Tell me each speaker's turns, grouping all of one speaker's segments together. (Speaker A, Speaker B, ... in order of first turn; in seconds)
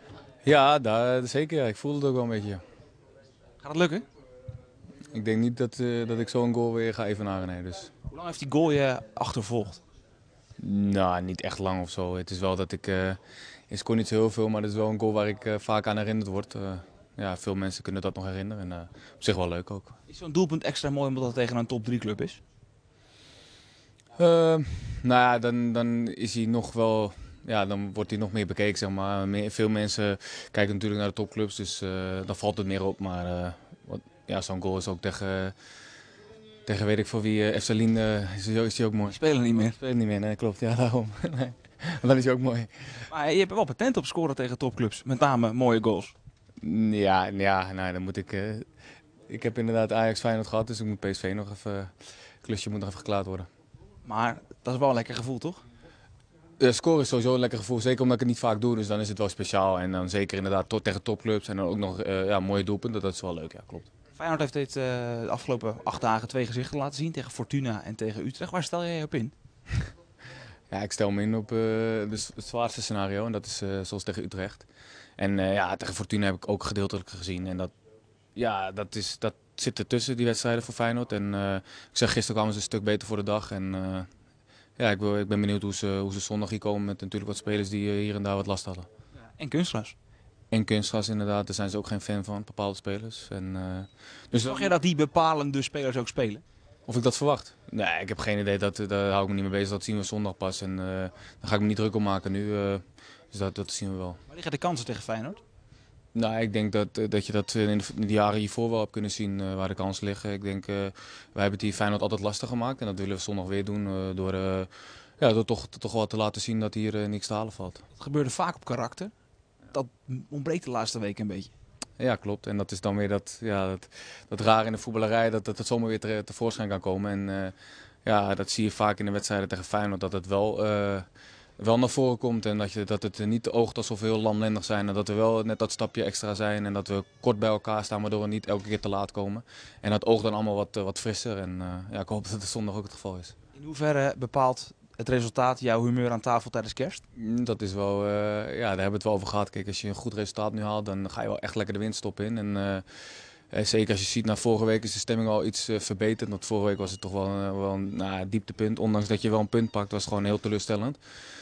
Speaker A: 0.5-2.6, 5.1-7.9, 10.6-13.2, 13.7-19.9, 24.2-35.5, 36.7-39.2, 39.7-42.7, 46.6-48.7, 49.3-51.9, 52.4-53.5, 56.6-63.9, 70.7-74.7, 75.2-77.7, 78.4-84.1, 84.8-88.9, 90.5-94.7, 96.9-104.2, 106.1-117.8, 122.0-127.5, 128.1-131.1, 131.6-143.3, 147.2-161.0
Speaker B: 3.6-4.0, 8.1-9.8, 20.1-22.4, 39.1-39.8, 43.1-46.1, 54.0-55.6, 64.2-69.3, 89.4-90.0, 94.5-96.4, 104.3-105.4, 118.0-119.1, 119.7-121.5, 143.6-147.0